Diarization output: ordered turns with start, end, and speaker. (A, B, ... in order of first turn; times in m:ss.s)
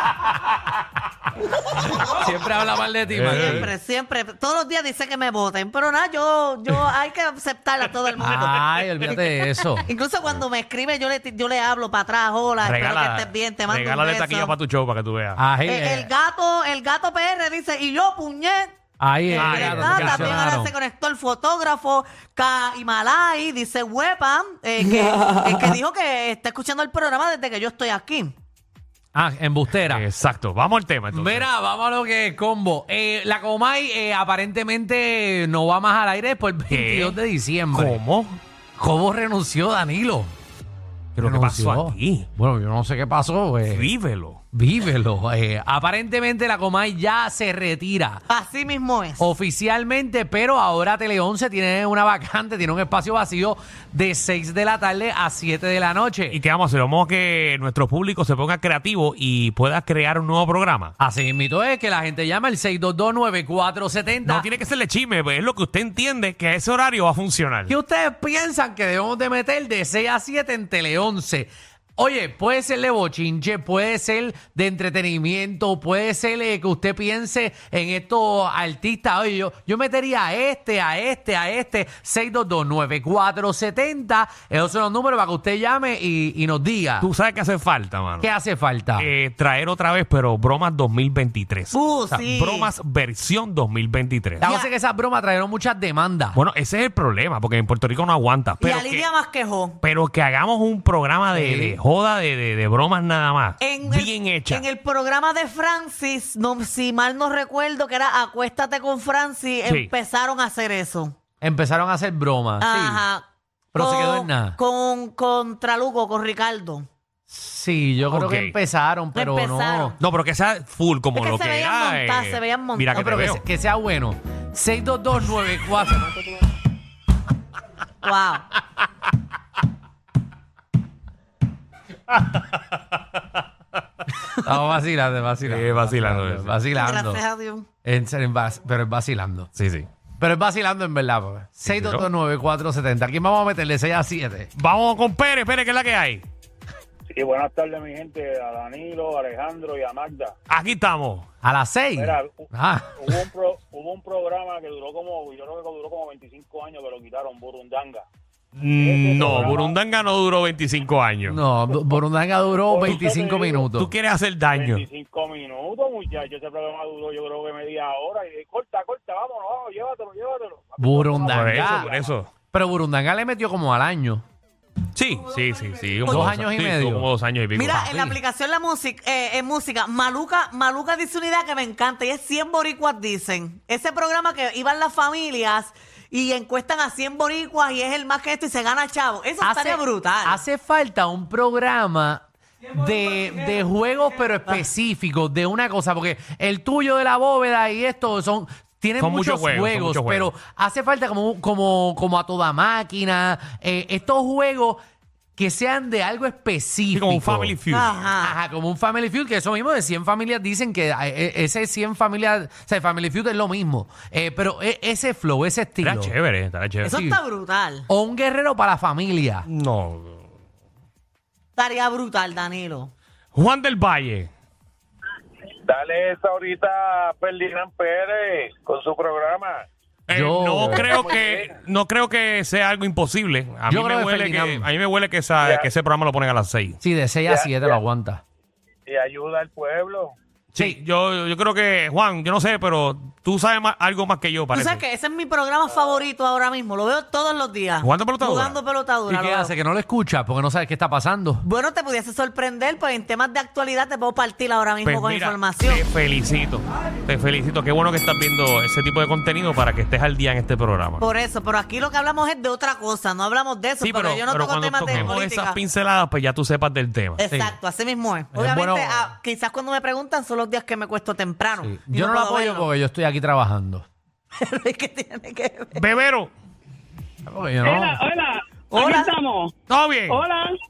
0:01.7-0:03.7 A
0:03.1-0:03.7 B
0:03.3-0:14.6 C
0:08.2-0:09.9 A
0:12.6-0:15.4 B
0:15.4-0:16.1 A
0:15.6-0:18.7 C
0:19.0-0:20.7 A
0:19.3-0:28.4 C
0:19.4-0:20.4 B
0:29.1-0:30.0 A
0:29.9-0:31.5 B
0:31.1-0:38.0 A
0:36.7-0:37.2 B
0:37.7-0:38.4 B
0:38.8-0:40.3 A
0:41.2-0:42.3 B
0:41.2-0:43.9 A
0:43.7-0:44.4 B
0:44.5-0:48.2 A
0:48.3-0:49.2 C
0:49.2-0:56.4 A
0:56.3-1:00.9 B
1:01.0-1:04.5 A
1:04.2-1:07.7 B
1:07.7-1:27.1 A
1:27.0-1:28.3 B
1:28.2-1:29.1 A
1:29.0-1:34.5 B
1:31.7-1:32.7 C
1:34.4-1:36.4 A
1:34.4-1:34.7 C
1:36.4-1:39.1 B
1:38.6-1:39.8 C
1:39.8-1:44.7 B
1:41.3-1:41.8 A
1:43.6-1:51.2 C
1:49.7-1:49.9 B
1:51.4-1:53.0 A
1:52.6-1:56.9 C
1:53.7-1:54.6 A
1:57.3-2:00.0 A
1:58.1-1:58.6 B
1:59.1-2:00.0 C
2:00.0-2:03.4 B
2:01.2-2:03.0 C
2:02.9-2:06.2 A
2:08.0-2:08.5 C
2:12.1-2:12.8 B
2:14.4-2:17.2 A
2:15.4-2:16.6 B
2:16.8-2:17.7 C
2:17.8-2:19.5 A
2:19.6-2:19.9 B
2:20.2-2:24.5 A
2:21.6-2:22.1 B
2:24.6-2:26.2 B
2:27.1-2:30.3 D
2:30.5-2:31.2 B
2:31.4-2:33.1 A
2:32.0-2:32.5 D
2:33.0-2:38.0 D
2:38.6-2:41.4 B
2:38.8-2:39.8 D
2:39.2-2:39.6 A
2:41.3-2:43.9 A
2:42.7-2:43.7 D
2:43.8-2:44.8 B
2:44.5-2:52.1 D
2:50.8-2:51.9 A
2:51.3-2:52.3 B
2:52.5-2:54.2 A
2:54.9-2:58.0 B
2:56.0-2:57.1 A
2:56.1-2:56.3 C
2:57.6-3:10.4 C
3:09.4-3:24.8 A
3:19.0-3:20.3 B
3:25.4-3:27.6 A
3:26.9-3:27.9 B
3:27.7-3:28.4 C
3:28.2-3:36.1 A
3:35.8-3:37.0 B
3:36.8-3:37.9 C
3:36.9-3:37.2 A
3:37.9-3:39.5 A
3:39.5-3:40.2 B
3:41.6-3:42.9 C
3:43.4-3:44.3 B
3:45.7-3:49.6 D
3:50.1-3:56.8 B
3:50.1-3:51.0 A
3:50.8-3:51.4 D
3:53.7-3:54.7 A
3:55.4-3:55.7 D
3:56.8-3:58.2 A
3:57.3-3:57.6 D
3:58.9-4:00.2 D
4:00.5-4:04.8 B
4:04.5-4:09.5 C
4:07.8-4:08.6 B
4:09.1-4:11.4 A
4:11.4-4:15.8 C
4:14.8-4:21.0 B
4:21.0-4:25.6 C
4:23.8-4:27.2 B
4:27.2-4:32.7 C
4:27.3-4:27.6 A
4:28.3-4:29.1 A
4:31.6-4:33.9 A
4:34.4-4:35.8 C
4:35.8-4:36.3 B
4:37.2-4:38.0 A
4:37.6-4:39.5 E
4:38.7-4:39.1 C
4:39.7-4:40.2 B
4:40.1-4:40.5 E